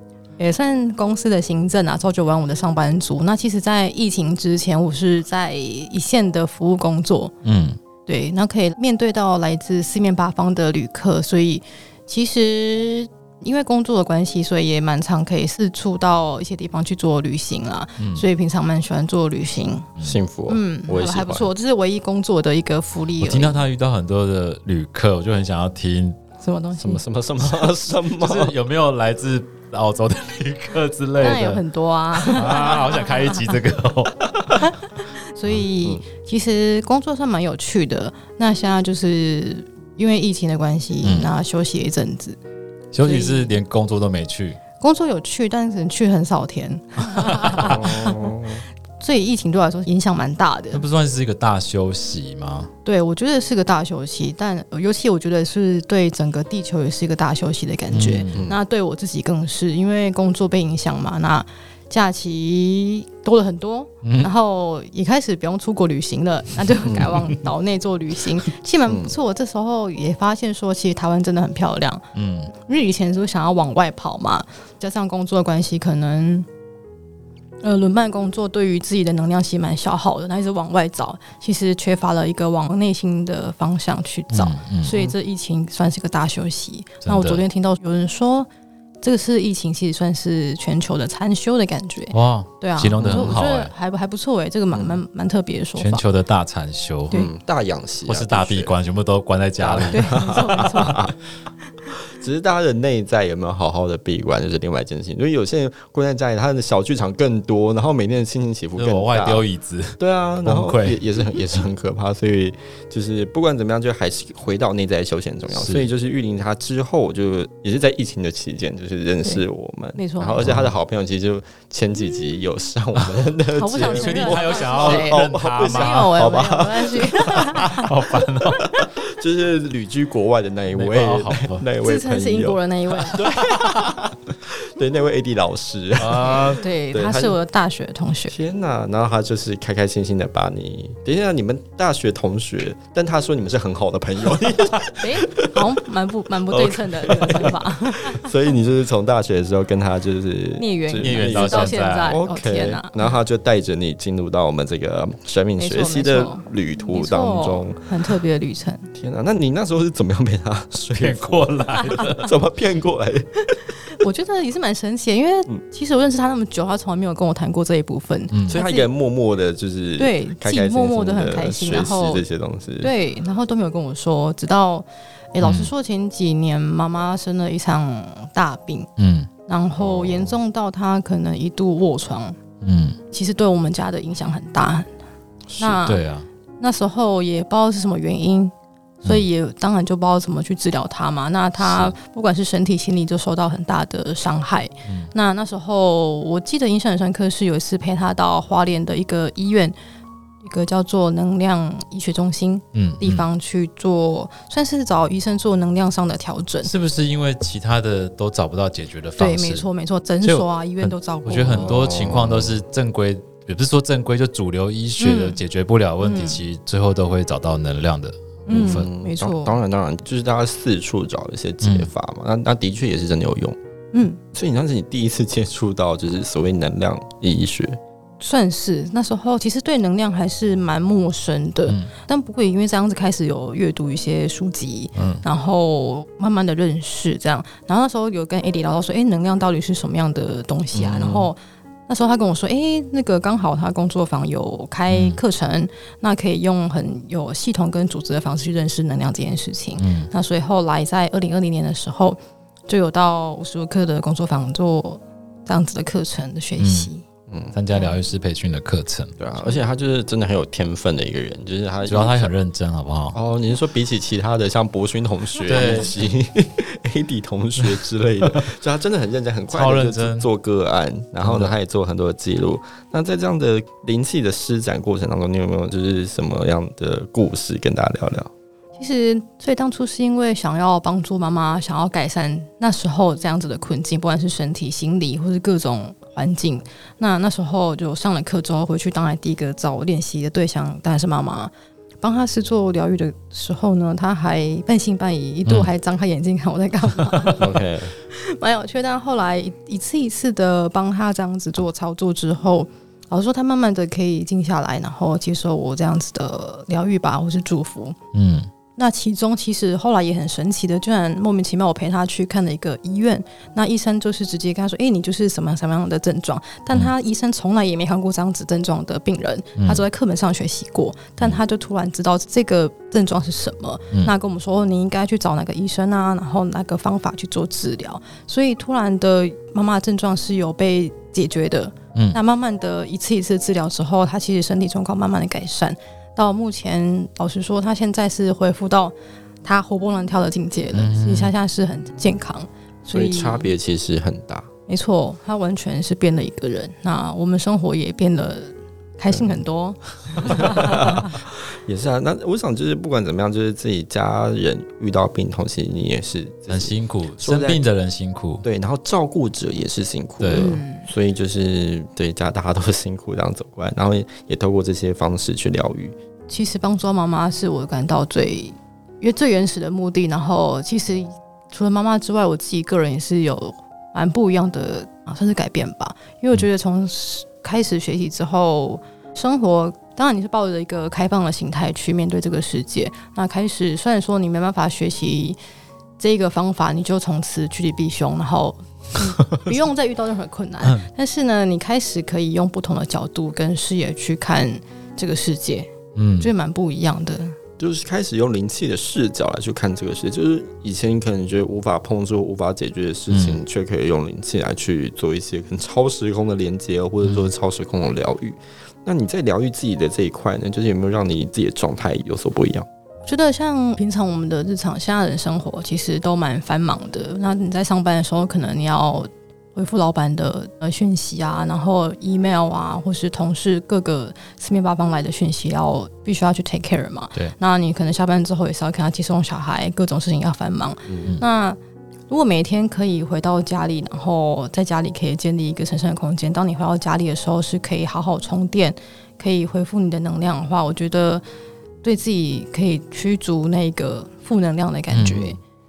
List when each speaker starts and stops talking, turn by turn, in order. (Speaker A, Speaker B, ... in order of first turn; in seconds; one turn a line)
Speaker A: 0.4-7.3
Speaker B: 7.4-7.8
Speaker A: 8.1-19.9
Speaker B: 18.0-18.2
Speaker C: 20.0-21.5
Speaker A: 20.5-23.6
Speaker B: 23.2-26.2
Speaker A: 26.4-27.0
Speaker C: 26.8-28.6
Speaker B: 27.4-31.6
Speaker A: 31.2-33.4
Speaker B: 32.2-34.6
Speaker A: 34.5-42.4
Speaker B: 41.0-41.3
Speaker B: 42.9-44.6
Speaker A: 43.0-43.5
Speaker A: 44.8-48.4
Speaker B: 47.1-47.8
Speaker C: 47.6-48.6
Speaker A: 49.0-50.8
Speaker B: 50.7-52.7
Speaker A: 52.8-72.0
Speaker B: 57.9-58.5
Speaker C: 58.3-58.6
Speaker B: 64.0-64.3
Speaker C: 66.9-67.2
Speaker B: 72.1-72.5
Speaker A: 72.6-76.5
Speaker A: 77.6-88.5
Speaker B: 84.3-84.9
Speaker C: 84.9-85.1
Speaker B: 87.0-87.4
Speaker A: 89.0-96.0
Speaker B: 92.1-93.7
Speaker C: 93.0-93.4
Speaker B: 95.8-97.2
Speaker C: 97.1-98.7
Speaker B: 98.1-100.4
Speaker C: 99.6-101.2
Speaker A: 99.9-101.0
Speaker C: 101.9-109.4
Speaker B: 108.8-111.0
Speaker C: 110.0-127.6
Speaker B: 115.5-115.9
Speaker A: 120.0-120.4
Speaker B: 120.4-120.7
Speaker A: 123.5-128.9
Speaker B: 123.8-126.3
Speaker B: 127.4-128.7
Speaker C: 128.8-137.4
Speaker B: 130.7-131.7
Speaker A: 131.8-133.3
Speaker B: 133.2-133.9
Speaker B: 136.0-136.6
Speaker A: 136.2-138.3
Speaker C: 138.3-145.6
Speaker A: 144.9-148.3
Speaker C: 146.5-157.9
Speaker A: 150.6-153.0
Speaker B: 151.0-152.2
Speaker A: 155.6-158.9
Speaker C: 158.9-163.4
Speaker B: 160.9-162.3
Speaker A: 163.4-168.9
Speaker B: 168.3-168.6
Speaker C: 168.5-172.9
Speaker A: 170.0-172.2
Speaker A: 172.8-178.9
Speaker B: 175.4-175.7
Speaker B: 179.0-179.3
Speaker A: 179.5-182.4
Speaker C: 179.8-180.4
Speaker B: 182.6-183.0
Speaker A: 183.1-184.9
Speaker C: 185.5-185.8
Speaker A: 185.6-186.0
Speaker B: 185.8-186.3
Speaker A: 186.6-199.7
Speaker A: 200.4-206.7
Speaker B: 202.7-203.2
Speaker B: 206.6-209.7
Speaker A: 209.2-211.8
Speaker B: 210.2-218.9
Speaker C: 211.5-212.6
Speaker A: 215.0-215.4
Speaker A: 216.0-216.4
Speaker A: 218.5-219.6
Speaker C: 218.5-223.6
Speaker B: 221.6-221.9
Speaker A: 223.9-224.2
Speaker C: 224.3-227.8
Speaker A: 228.2-257.0
Speaker B: 231.7-231.9
Speaker B: 234.9-235.2
Speaker C: 240.7-241.3
Speaker B: 244.9-245.2
Speaker B: 249.8-250.1
Speaker B: 256.6-256.9
Speaker C: 257.3-257.9
Speaker B: 257.5-259.1
Speaker C: 259.2-262.3
Speaker B: 261.9-263.1
Speaker C: 263.1-278.3
Speaker B: 265.4-265.9
Speaker B: 269.5-270.3
Speaker B: 271.2-271.5
Speaker A: 278.8-291.5
Speaker A: 292.0-297.6
Speaker C: 297.4-297.9
Speaker A: 298.1-307.9
Speaker B: 308.1-308.5
Speaker A: 308.8-343.5
Speaker B: 319.6-319.8
Speaker B: 340.7-341.3
Speaker C: 342.9-344.5
Speaker A: 344.7-351.1
Speaker C: 350.2-357.6
Speaker B: 356.5-358.4
Speaker C: 358.4-365.9
Speaker B: 360.2-360.6
Speaker A: 360.3-360.9
Speaker A: 366.3-385.4
Speaker A: 386.0-395.7
Speaker B: 395.9-396.3
Speaker A: 396.2-397.4
Speaker C: 397.6-412.7
Speaker B: 403.1-403.4
Speaker B: 407.0-407.3
Speaker A: 413.1-431.6
Speaker C: 430.9-431.1
Speaker A: 432.1-441.2
Speaker A: 441.8-445.4
Speaker B: 444.9-445.3